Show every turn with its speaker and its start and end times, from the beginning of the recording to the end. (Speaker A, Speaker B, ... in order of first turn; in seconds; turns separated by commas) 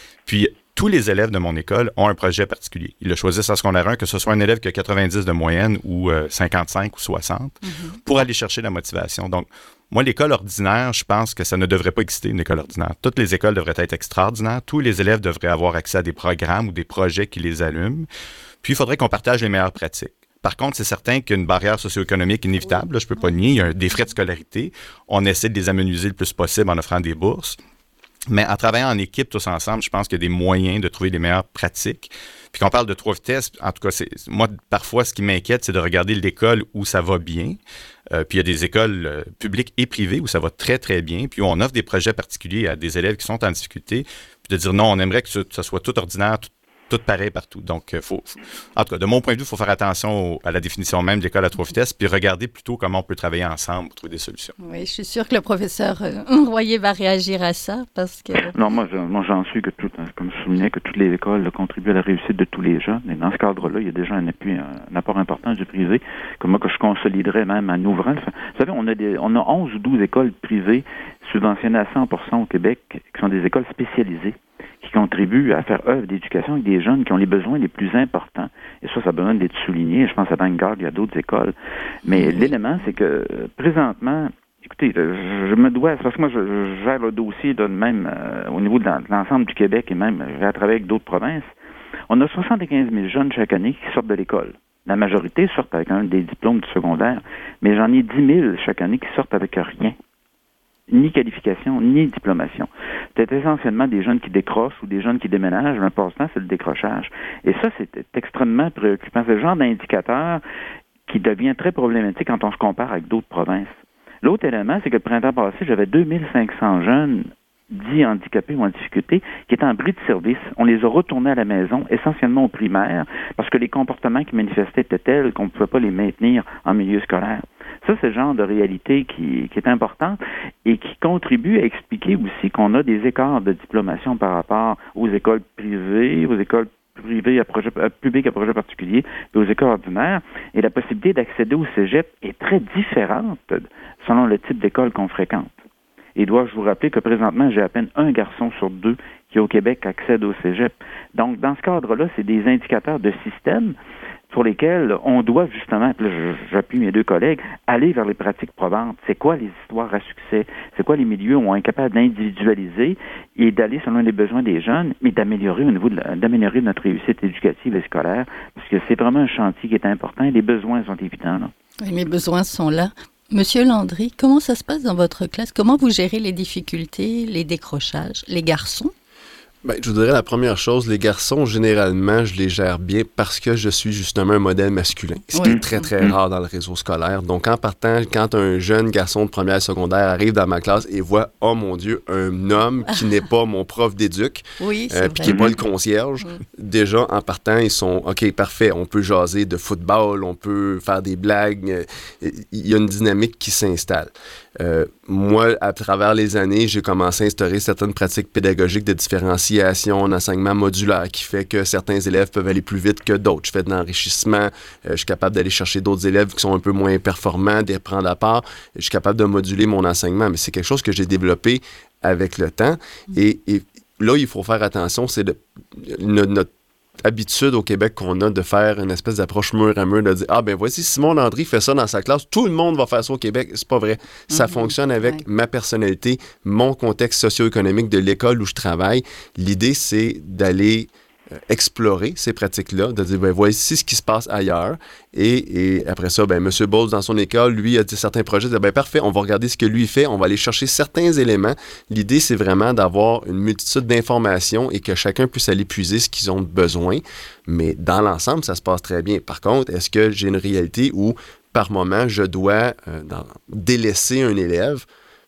Speaker A: 0.2-18.1, Speaker B: 7.6-8.0, Speaker A: 18.6-27.6, Speaker A: 28.3-37.6, Speaker A: 38.1-54.5, Speaker B: 54.6-58.5, Speaker C: 58.5-81.5, Speaker C: 82.0-91.5, Speaker B: 82.2-82.5, Speaker C: 92.1-100.0, Speaker C: 100.9-110.4, Speaker C: 111.1-145.5, Speaker C: 146.2-153.7, Speaker C: 154.3-171.5, Speaker B: 171.8-178.9, Speaker D: 179.6-226.5, Speaker B: 185.3-185.8, Speaker C: 185.4-186.1, Speaker B: 194.6-195.6, Speaker C: 195.2-195.5, Speaker D: 227.0-264.8, Speaker B: 234.3-235.2